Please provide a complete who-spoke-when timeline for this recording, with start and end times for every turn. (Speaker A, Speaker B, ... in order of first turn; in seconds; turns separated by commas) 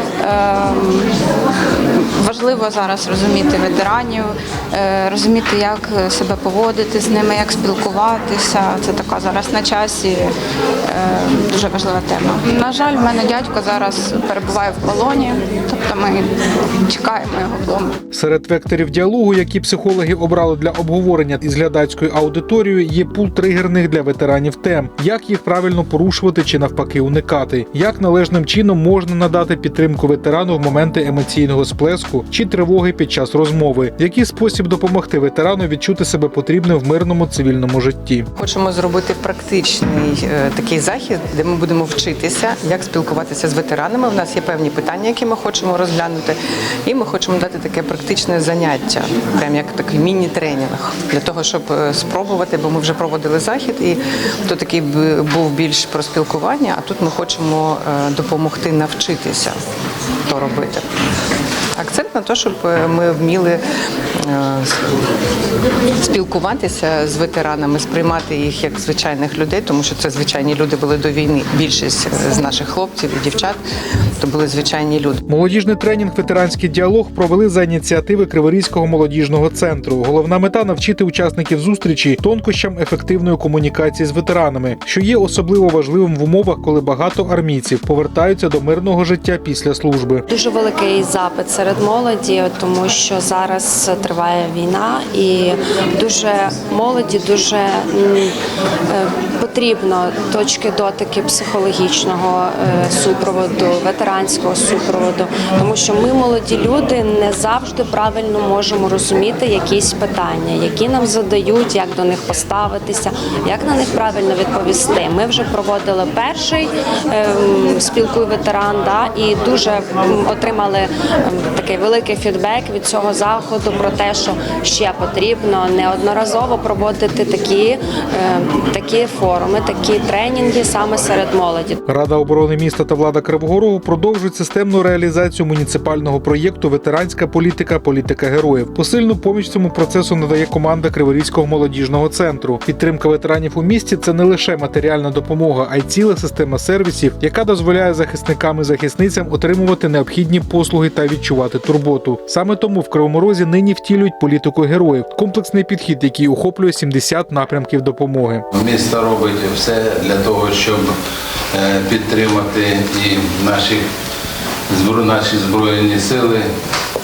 Speaker A: 0.2-1.1, Speaker A: 1.8-10.3, Speaker A: 10.9-18.0, Speaker B: 18.1-38.3, Speaker C: 38.4-59.6, Speaker C: 60.3-60.9, Speaker C: 61.8-63.6, Speaker C: 64.2-64.9, Speaker C: 66.0-73.6, Speaker C: 74.2-75.2, Speaker B: 75.3-90.2, Speaker D: 90.3-98.3, Speaker D: 98.9-131.8, Speaker B: 131.9-158.4, Speaker E: 158.5-160.9, Speaker E: 161.5-163.8, Speaker E: 164.7-166.5